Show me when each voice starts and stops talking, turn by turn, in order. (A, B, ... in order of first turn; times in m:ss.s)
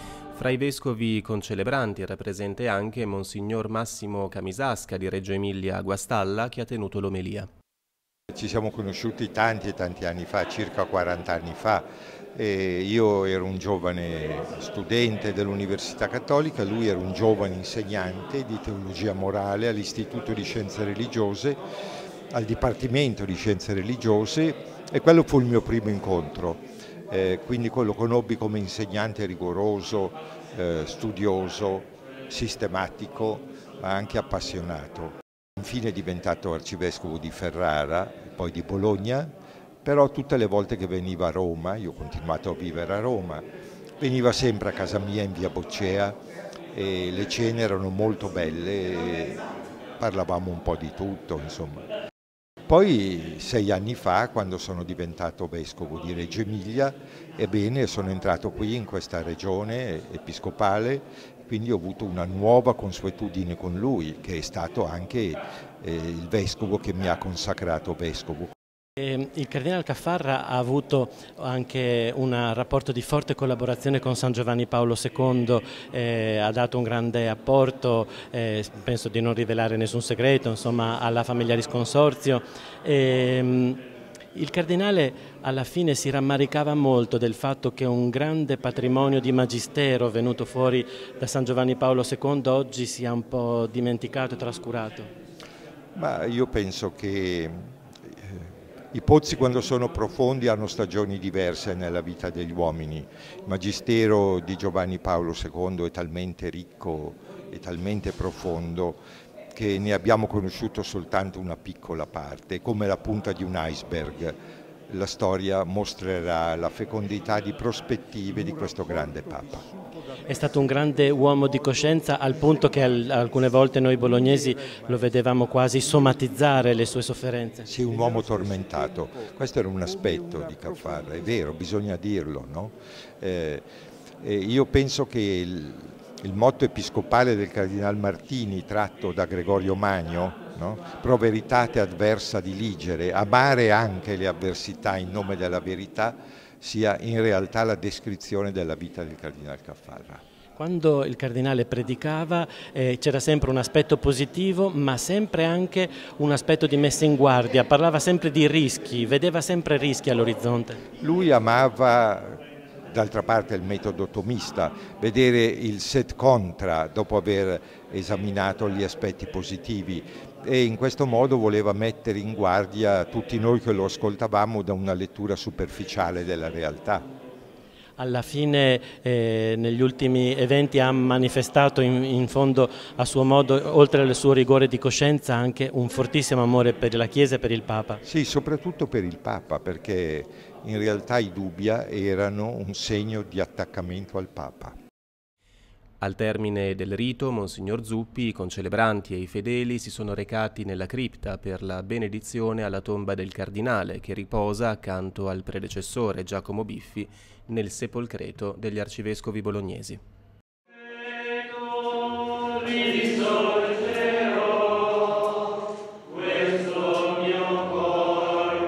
0:00.3-0:07.5 A
0:08.3-0:21.6 B
0:22.3-0:39.3 B
0:39.8-0:43.4 B
0:44.0-0:46.2 B
0:46.7-0:49.4 B
0:50.0-0:51.9 B
0:52.7-1:08.5 B
1:09.0-1:23.8 C
1:24.3-1:35.1 C
1:36.0-1:49.0 B
1:49.5-1:54.4 B
1:54.9-1:59.7 B
2:00.3-2:07.7 C
2:07.7-2:13.6 B
2:14.2-2:30.2 B
2:30.6-2:40.8 C
2:41.0-2:57.0 B
2:58.0-3:08.0 C
3:08.0-3:14.8 B
3:16.0-3:30.0 A
3:32.8-3:34.2 A
3:36.5-3:38.5 A